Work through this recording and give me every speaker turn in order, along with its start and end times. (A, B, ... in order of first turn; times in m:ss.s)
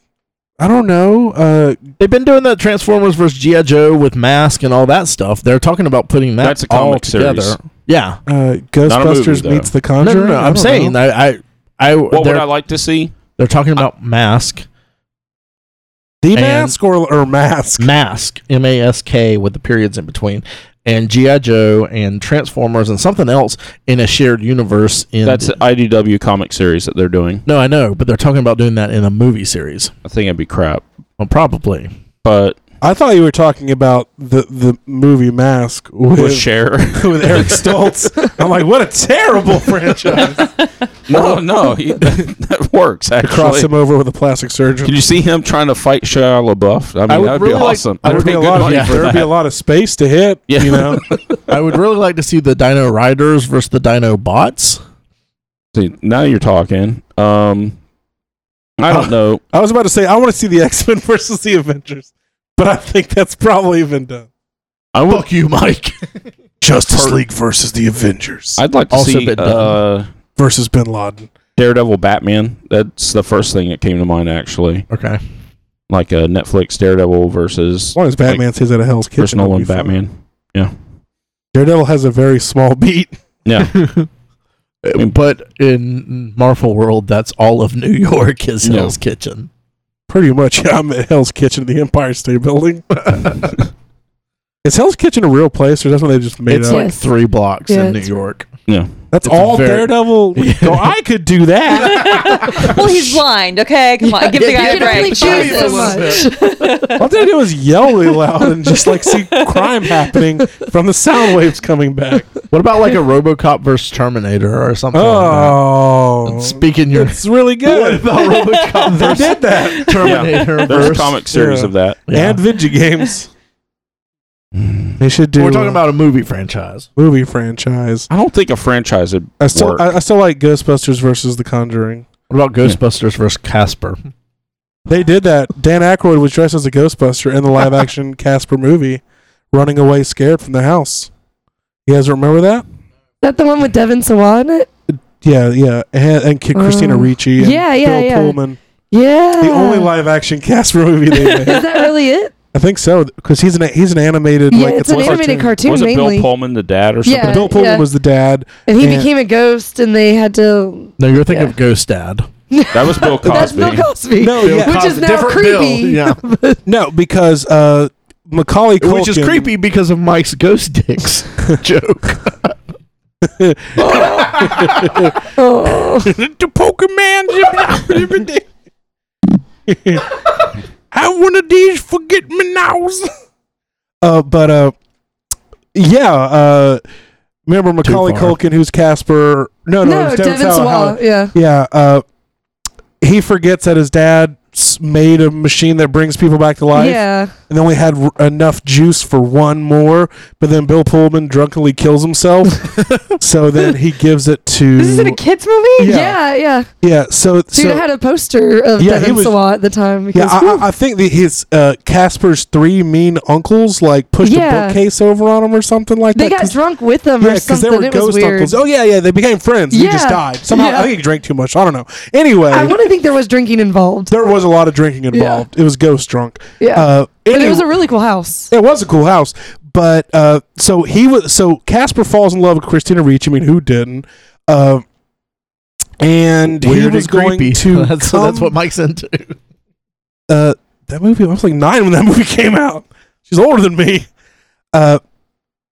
0:00.6-0:01.8 A
0:02.0-0:08.2 B
0:06.4-0:07.6 C
0:08.3-0:11.0 A
0:08.8-0:09.7 C
0:10.0-0:12.5 B
0:12.1-0:13.2 C
0:13.4-0:14.6 B
0:16.2-0:17.9 A
0:16.4-0:16.8 B
0:17.8-0:25.6 B
0:25.2-0:27.4 C
0:27.5-0:29.9 B
0:30.0-0:30.8 C
0:31.2-0:31.9 B
0:32.2-0:32.6 C
0:32.8-0:40.5 A
0:36.2-0:37.6 C
0:41.1-0:43.7 C
0:43.2-0:45.0 A
0:44.8-0:49.3 C
0:47.1-0:49.2 B
0:48.0-0:51.1 A
0:50.5-0:51.5 C
0:51.5-0:54.8 B
0:55.7-0:57.8 C
0:58.8-0:59.4 C
0:58.9-1:04.3 A
1:04.9-1:05.2 C
1:05.1-1:06.0 B
1:06.6-1:08.6 A
1:06.9-1:07.2 C
1:08.6-1:10.1 C
1:08.9-1:09.8 B
1:10.4-1:11.3 A
1:11.6-1:14.9 C
1:14.9-1:15.2 B
1:15.9-1:18.4 C
1:18.0-1:20.0 A
1:19.2-1:20.7 C
1:21.5-1:23.2 A
1:23.4-1:23.7 C
1:23.6-1:24.1 B
1:24.8-1:29.5 B
1:28.6-1:29.0 C
1:30.1-1:32.9 A
1:34.6-1:36.9 A
1:36.5-1:38.5 B
1:36.7-1:37.0 D
1:37.7-1:38.1 D
1:38.7-1:39.1 C
1:39.1-1:43.2 A
1:39.2-1:40.9 B
1:41.8-1:47.0 E
1:42.0-1:42.8 B
1:44.0-1:46.7 D
1:44.3-1:46.3 B
1:47.0-1:52.3 A
1:52.5-1:55.6 B
1:54.9-1:58.2 A
1:56.3-2:01.2 B
1:58.2-2:00.6 E
1:58.8-2:00.3 A
2:00.0-2:02.0 C
2:01.3-2:03.3 A
2:02.1-2:02.4 B
2:04.6-2:05.0 C
2:05.0-2:05.8 A
2:05.4-2:06.9 B
2:07.0-2:08.1 A
2:08.1-2:09.9 C
2:09.4-2:12.1 A
2:12.3-2:14.0 B
2:14.9-2:21.1 A
2:21.9-2:22.6 A
2:23.2-2:24.7 D
2:24.9-2:28.6 A
2:26.6-2:28.4 D
2:28.9-2:29.9 D
2:29.4-2:31.7 A
2:31.2-2:31.6 E
2:31.4-2:32.3 D
2:32.5-2:35.6 A
2:34.5-2:36.3 D
2:35.0-2:37.4 C
2:37.0-2:37.9 D
2:37.2-2:39.1 A
2:38.7-2:41.6 D
2:41.0-2:42.3 B
2:42.5-2:46.6 D
2:42.7-2:43.9 C
2:44.2-2:45.1 A
2:44.4-2:46.2 B
2:46.7-2:49.5 A
2:48.8-2:52.6 B
2:53.2-2:55.2 A
2:53.8-2:55.1 B
2:55.4-2:56.1 D
2:55.7-2:58.5 A
2:59.7-3:00.1 A
3:00.9-3:03.1 A
3:04.0-3:04.8 A
3:05.7-3:06.8 A
3:07.5-3:12.0 A
3:07.8-3:08.4 B
3:09.8-3:11.3 D
3:13.0-3:25.2 A
3:16.7-3:17.3 D
3:24.8-3:26.0 E
3:25.8-3:26.2 A
3:25.8-3:26.7 D
3:26.8-3:27.8 A
3:27.5-3:30.7 D
3:28.8-3:29.4 A
3:30.1-3:36.6 A
3:34.2-3:34.8 D
3:36.1-3:38.6 D
3:37.2-3:42.8 A
3:39.7-3:40.9 D
3:42.5-3:44.1 D
3:44.1-3:47.7 A
3:45.1-3:45.4 D
3:46.6-3:48.5 D
3:48.5-3:54.8 A
3:56.0-3:58.6 A
3:56.6-3:59.4 B
4:00.3-4:04.1 A
4:04.7-4:05.0 A